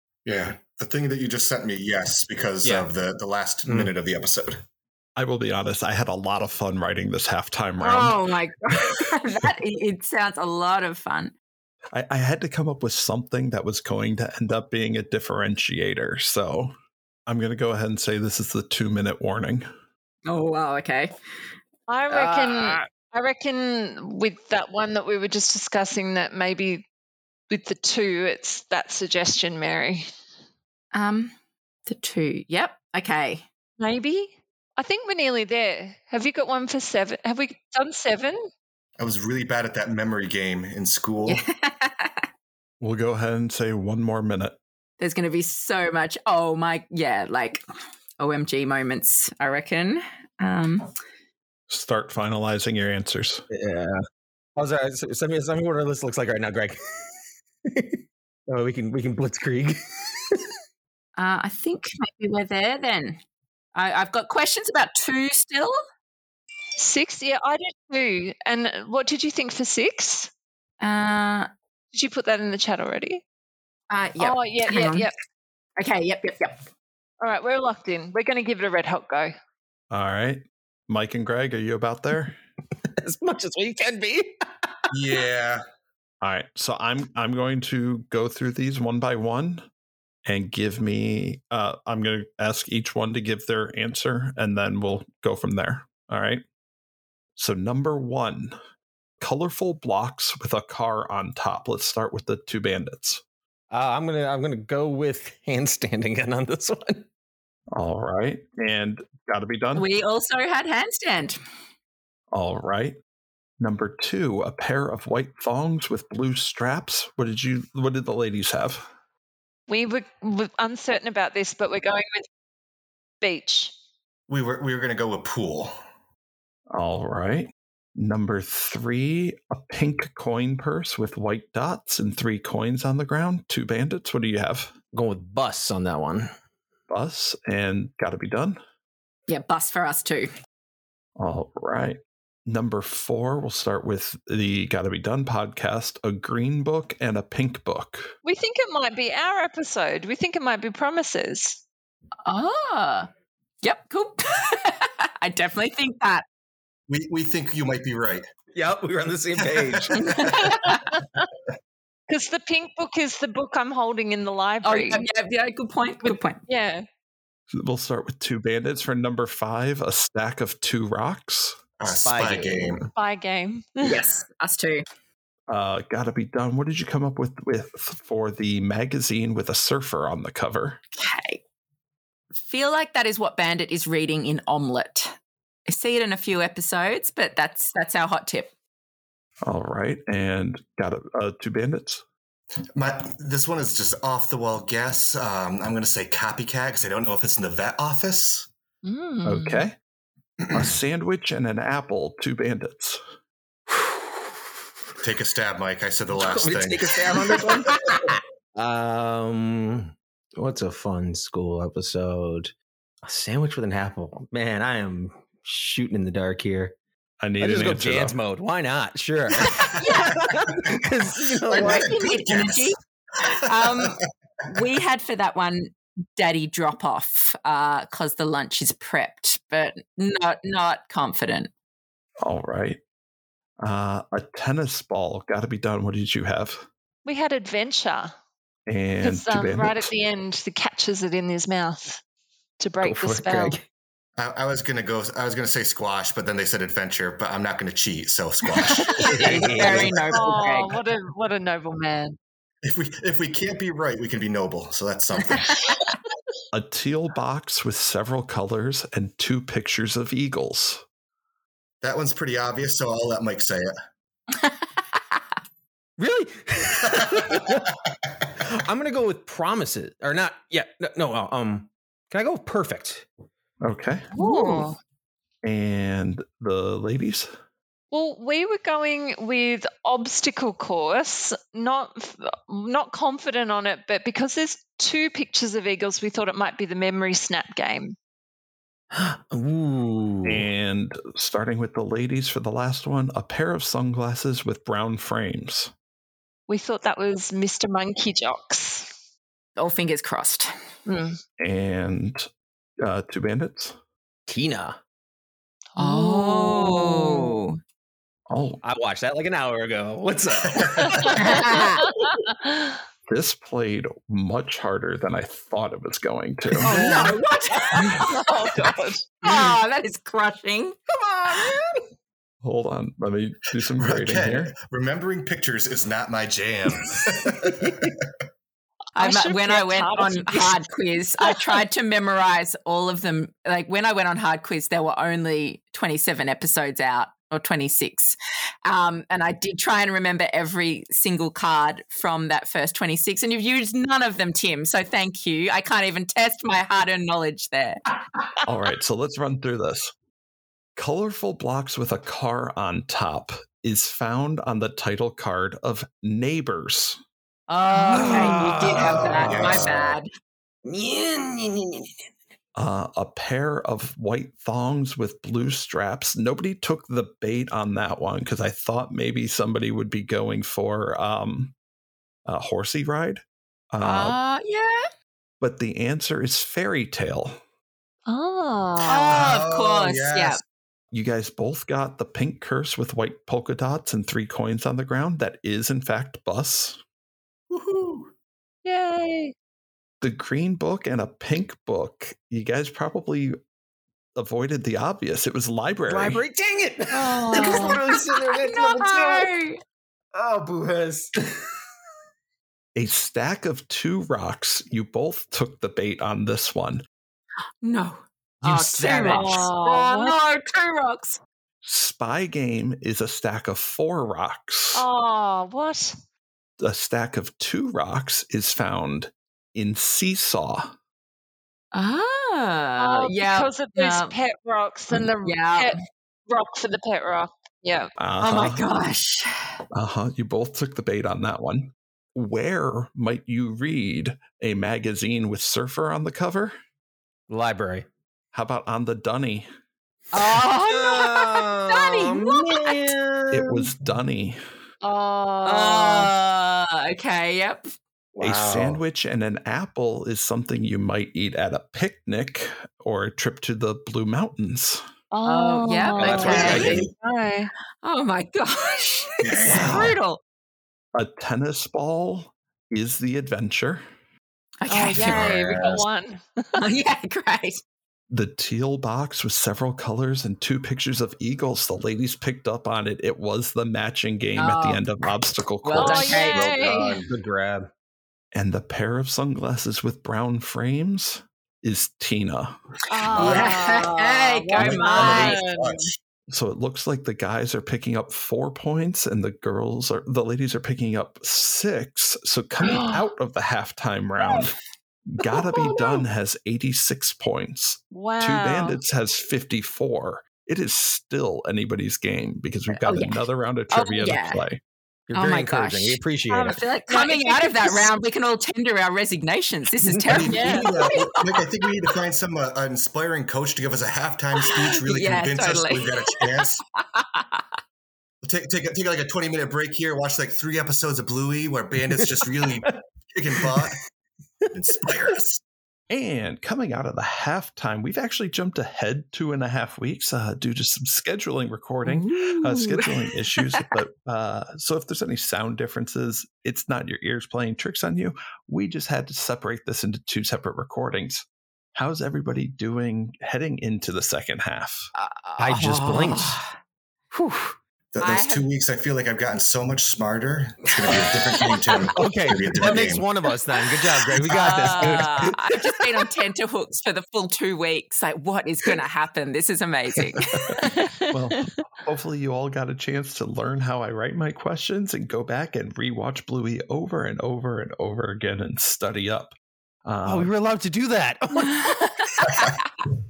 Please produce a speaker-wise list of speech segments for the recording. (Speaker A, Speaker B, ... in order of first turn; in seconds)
Speaker A: 0.2-4.6, 39.0-41.4, 84.9-85.6, 124.3-125.7, 156.9-158.2, 159.4-160.1, 171.8-172.9, 192.8-198.5, 200.4-200.7, 205.0-208.0, 220.7-222.7, 223.5-223.9, 244.2-250.0, 252.6-255.6, 261.8-263.7, 267.0-267.5, 310.5-311.1, 323.8-328.1, 358.6-359.9, 379.1-380.4, 387.5-388.1, 456.0-456.9, 459.2-459.9, 465.0-465.8, 476.1-477.1, 483.1-483.6, 484.6-485.9, 510.1-516.6, 518.2-523.8, 524.5-525.4, 547.9-553.0
Speaker B: 5.2-8.2, 11.9-16.7, 17.3-19.7, 42.8-44.6, 51.7-53.4, 79.9-82.4, 86.2-89.7, 90.2-96.4, 97.4-98.5, 99.2-103.2, 107.7-109.8, 112.3-113.0, 113.6-118.9, 126.7-134.7, 136.9-138.6, 141.2-148.1, 167.5-171.6, 175.5-180.8, 189.4-192.0, 199.2-199.8, 200.5-203.0, 217.2-218.2, 232.2-232.8, 233.6-236.7, 238.7-239.9, 242.8-243.5, 256.5-260.8, 273.6-274.1, 275.4-277.3, 290.2-295.7, 301.4-302.3, 302.8-303.8, 308.3-308.6, 313.1-316.8, 322.4-324.5, 348.4-349.9, 350.8-357.0, 362.6-371.5, 372.2-374.2, 375.4-377.4, 380.9-386.8, 390.0-393.4, 394.1-396.2, 402.7-406.8, 411.6-414.9, 416.6-420.7, 428.0-428.6, 429.7-436.5, 438.3-439.5, 443.3-444.4, 448.1-454.8, 459.5-459.9, 460.9-463.8, 468.1-476.2, 478.3-482.6, 486.3-494.6, 495.1-504.6, 525.9-544.9, 561.1-570.3
Speaker C: 7.8-11.3, 20.2-21.1, 22.1-22.8, 30.9-31.3, 31.9-33.4, 41.3-42.2, 45.0-47.6, 48.2-50.9, 61.2-63.2, 63.7-65.8, 70.8-71.5, 73.9-75.1, 75.8-76.6, 109.7-111.4, 139.3-140.3, 152.2-153.1, 153.6-156.2, 159.9-160.9, 164.6-166.4, 173.8-174.8, 180.9-181.4, 182.4-185.1, 185.7-188.5, 219.8-220.2, 221.5-231.5, 248.8-250.8, 255.3-255.8, 264.4-265.2, 274.2-274.6, 299.6-300.5, 305.8-307.6, 311.1-311.9, 316.6-318.7, 319.2-320.8, 321.3-321.5, 328.9-347.8, 357.5-360.1, 373.8-374.9, 378.8-380.4, 397.3-399.6, 407.6-411.2, 421.7-424.2, 424.9-425.8, 428.2-429.3, 440.1-442.9, 445.4-447.7, 455.2-456.9, 457.8-460.2, 464.6-465.3, 466.6-467.6, 474.4-474.9, 475.6-476.4, 483.1-485.4, 502.7-504.4, 505.1-511.4, 514.4-517.4, 531.8-533.7, 544.9-546.5, 548.0-548.5, 554.3-560.6, 571.5-572.7
Speaker D: 21.9-26.9, 27.5-30.0, 33.8-38.4, 66.8-70.3, 71.9-73.2, 74.2-75.1, 77.2-79.3, 119.7-122.3, 123.2-123.7, 148.2-151.6, 160.4-161.2, 162.1-165.0, 166.0-166.8, 172.9-174.1, 198.8-199.6, 237.0-238.1, 239.0-242.0, 242.6-243.6, 250.1-252.2, 274.1-274.8, 277.9-287.9, 296.5-298.9, 300.9-301.2, 305.8-307.4, 310.8-312.8, 316.6-317.1, 317.7-319.1, 329.0-330.6, 357.8-358.4, 378.1-379.1, 388.6-389.3, 396.9-397.8, 409.0-410.1, 414.7-415.9, 422.8-427.9, 444.8-446.1, 455.1-457.5, 464.7-466.6, 475.8-477.0, 482.9-485.8, 492.7-493.0, 497.9-498.8, 506.3-507.9, 510.3-510.7, 560.6-561.5
Speaker E: 53.5-54.0, 54.5-56.8, 57.6-60.4, 83.0-84.7, 103.7-107.0, 134.9-136.3, 158.5-160.1, 171.9-172.9, 206.1-212.5, 213.0-216.7, 217.4-221.9, 249.0-250.1, 266.0-267.7, 268.4-273.1, 288.9-290.5, 304.3-304.8, 308.6-311.5, 316.7-317.2, 320.9-321.8, 327.6-327.9, 357.9-359.9, 360.6-361.9, 395.9-399.3, 400.1-401.4, 408.4-409.5, 437.3-437.9, 440.2-443.7, 448.2-448.8, 456.3-456.6, 477.0-477.7, 505.1-506.6, 509.8-510.1, 522.1-522.7, 523.4-523.7, 545.4-546.4, 547.1-547.5, 552.0-555.9, 560.1-560.4, 570.0-571.8